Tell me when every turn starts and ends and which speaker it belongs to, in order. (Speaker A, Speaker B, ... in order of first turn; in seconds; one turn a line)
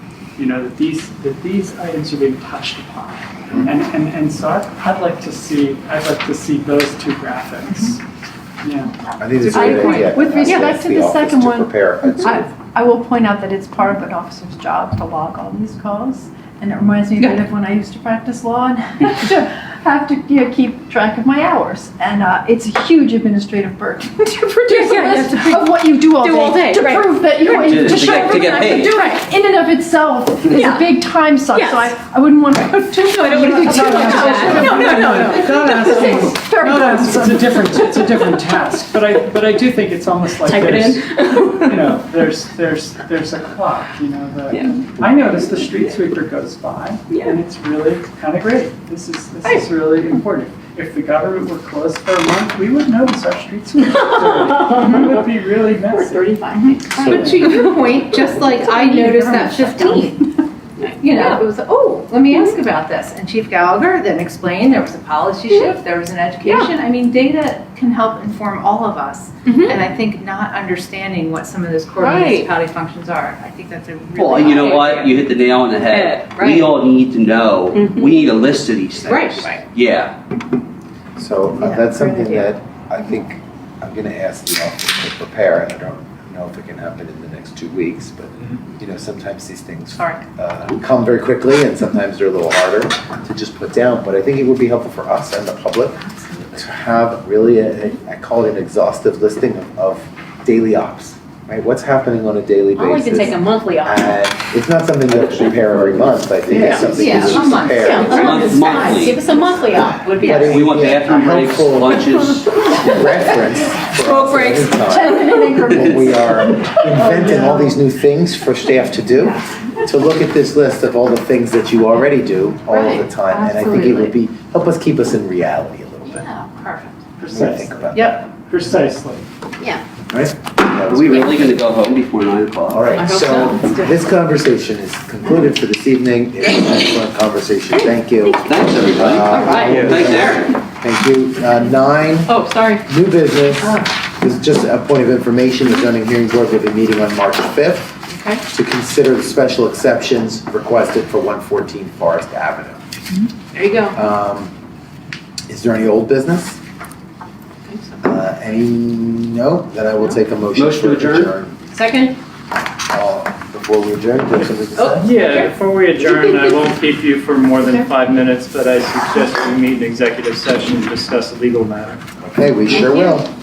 Speaker A: 0.3-8.0
Speaker A: 8.6-8.9
Speaker B: 9.2-12.5
Speaker C: 9.5-37.7
Speaker D: 24.7-27.6
Speaker E: 27.4-29.1
Speaker D: 28.9-29.2
Speaker D: 30.5-30.9
Speaker D: 31.5-31.9
Speaker D: 33.2-36.1
Speaker A: 33.5-57.7
Speaker D: 40.4-41.8
Speaker D: 44.5-44.9
Speaker D: 47.1-47.3
Speaker D: 53.9-54.9
Speaker D: 55.9-57.8
Speaker F: 56.5-60.4
Speaker B: 57.2-57.4
Speaker D: 58.5-59.7
Speaker D: 60.8-61.4
Speaker F: 61.0-75.3
Speaker D: 62.2-62.5
Speaker D: 66.4-66.7
Speaker D: 69.4-69.8
Speaker D: 72.0-72.5
Speaker E: 74.1-80.2
Speaker D: 75.9-76.7
Speaker D: 77.7-78.2
Speaker D: 79.0-79.6
Speaker B: 81.2-126.3
Speaker C: 81.6-82.1
Speaker D: 102.7-104.1
Speaker D: 106.5-110.7
Speaker F: 106.6-109.2
Speaker E: 108.1-109.2
Speaker E: 110.3-113.0
Speaker D: 114.0-114.6
Speaker C: 114.7-117.8
Speaker E: 115.7-116.0
Speaker F: 119.2-119.6
Speaker F: 122.7-124.1
Speaker F: 126.1-126.9
Speaker A: 127.2-129.2
Speaker B: 127.2-128.2
Speaker F: 127.9-128.2
Speaker B: 130.1-131.5
Speaker E: 130.8-132.9
Speaker B: 132.7-147.9
Speaker D: 132.9-133.9
Speaker E: 138.4-140.5
Speaker D: 139.3-140.3
Speaker D: 142.2-142.8
Speaker B: 148.5-152.8
Speaker D: 153.5-154.0
Speaker B: 153.9-154.5
Speaker B: 155.5-156.6
Speaker D: 157.7-157.9
Speaker B: 158.0-161.6
Speaker E: 160.5-161.3
Speaker D: 161.7-162.2
Speaker B: 162.9-165.2
Speaker D: 164.8-165.5
Speaker G: 165.0-172.0
Speaker B: 172.2-173.3
Speaker D: 172.7-173.2